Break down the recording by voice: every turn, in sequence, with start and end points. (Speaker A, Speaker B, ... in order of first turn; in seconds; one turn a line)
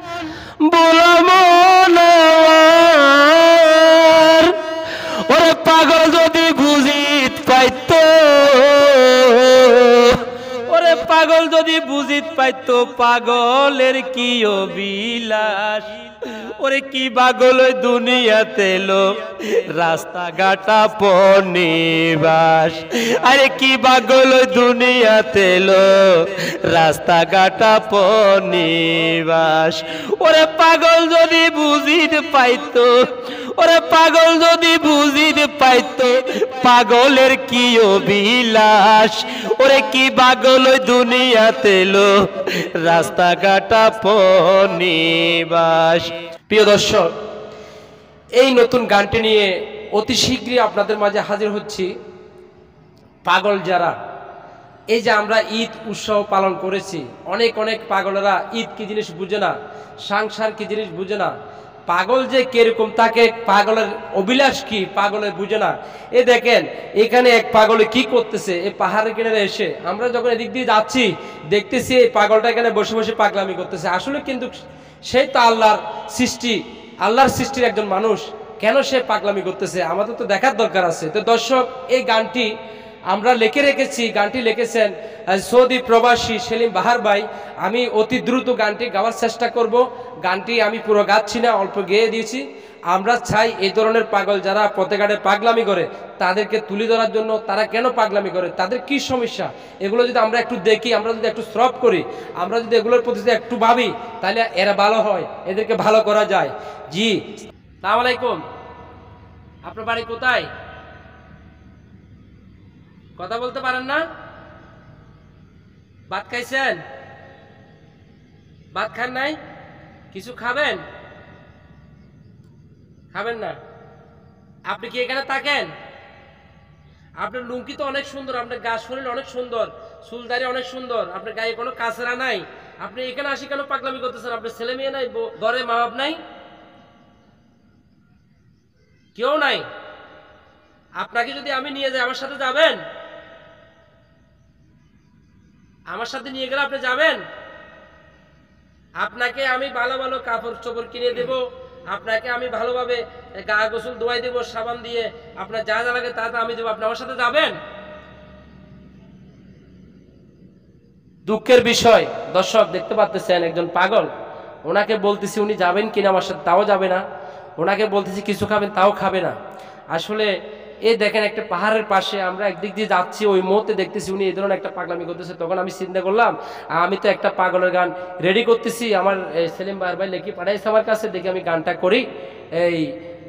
Speaker A: 0.6-4.6
Speaker A: 5.3-15.9
Speaker A: 16.6-47.1
Speaker A: 48.4-51.9
Speaker A: 53.2-54.0
Speaker A: 54.9-61.3
Speaker A: 61.9-74.5
Speaker A: 75.1-82.5
Speaker A: 83.1-107.2
Speaker A: 107.8-108.4
Speaker A: 109.7-110.5
Speaker A: 113.2-114.0
Speaker A: 116.1-116.8
Speaker A: 118.7-119.4
Speaker A: 120.1-120.8
Speaker A: 123.1-123.6
Speaker A: 124.7-125.7
Speaker A: 127.2-136.2
Speaker A: 139.1-139.6
Speaker A: 141.0-142.8
Speaker A: 145.9-147.2
Speaker A: 149.0-157.6
Speaker A: 161.2-164.1
Speaker A: 164.7-167.0
Speaker A: 167.6-169.3
Speaker A: 169.9-170.3
Speaker A: 170.8-182.0
Speaker A: 182.6-182.9